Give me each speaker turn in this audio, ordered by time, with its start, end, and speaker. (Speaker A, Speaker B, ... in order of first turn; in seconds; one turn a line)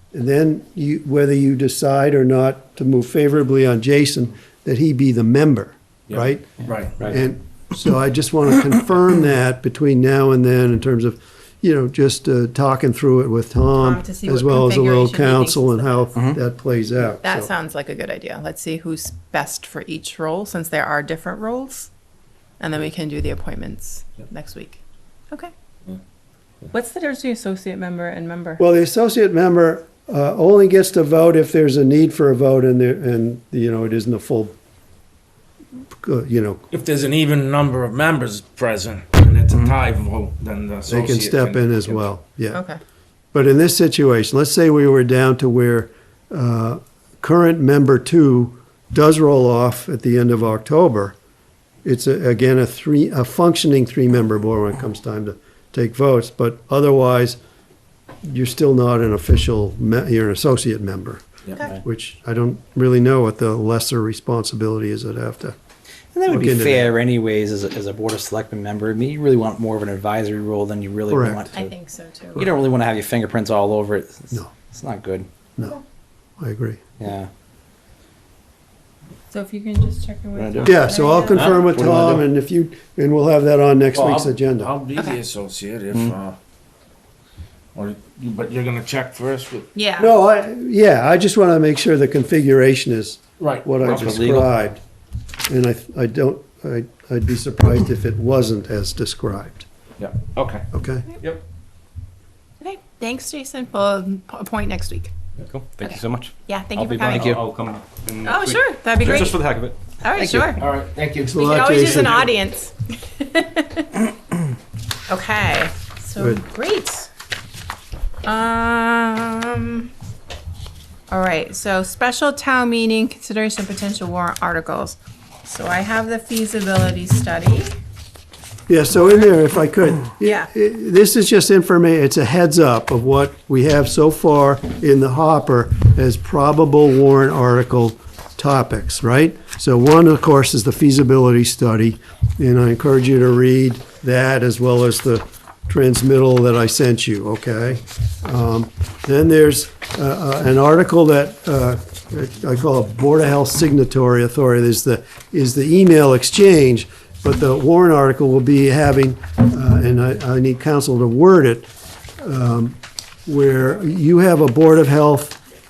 Speaker A: 0.1-17.5
Speaker B: 6.1-7.1
Speaker C: 6.6-7.2
Speaker D: 13.7-16.2
Speaker D: 17.2-21.9
Speaker D: 22.6-25.5
Speaker D: 26.7-28.6
Speaker A: 28.6-34.5
Speaker A: 36.0-36.6
Speaker B: 36.7-42.1
Speaker A: 40.9-42.6
Speaker D: 42.5-42.8
Speaker A: 43.3-51.2
Speaker A: 51.8-57.4
Speaker A: 58.2-65.6
Speaker C: 66.1-71.7
Speaker A: 66.3-66.9
Speaker A: 71.1-71.5
Speaker D: 71.5-72.5
Speaker C: 72.3-75.3
Speaker A: 76.4-76.8
Speaker C: 77.0-77.3
Speaker D: 79.3-81.8
Speaker C: 80.3-80.8
Speaker A: 80.7-84.7
Speaker B: 81.3-81.7
Speaker C: 81.6-82.2
Speaker B: 83.9-86.4
Speaker B: 87.8-89.7
Speaker D: 89.8-90.1
Speaker A: 90.0-94.8
Speaker B: 93.4-94.1
Speaker C: 93.8-94.5
Speaker A: 95.5-99.7
Speaker B: 100.0-100.7
Speaker A: 100.7-101.1
Speaker D: 102.6-105.1
Speaker E: 105.5-109.8
Speaker D: 105.8-107.4
Speaker C: 107.1-107.4
Speaker D: 108.2-109.4
Speaker B: 109.0-109.3
Speaker D: 110.0-110.6
Speaker C: 110.2-110.6
Speaker B: 110.6-112.1
Speaker A: 111.2-112.3
Speaker D: 111.3-114.0
Speaker D: 115.1-117.1
Speaker A: 116.2-116.4
Speaker D: 118.2-119.9
Speaker D: 121.1-127.8
Speaker A: 128.7-161.7
Speaker D: 130.2-130.5
Speaker A: 162.2-165.4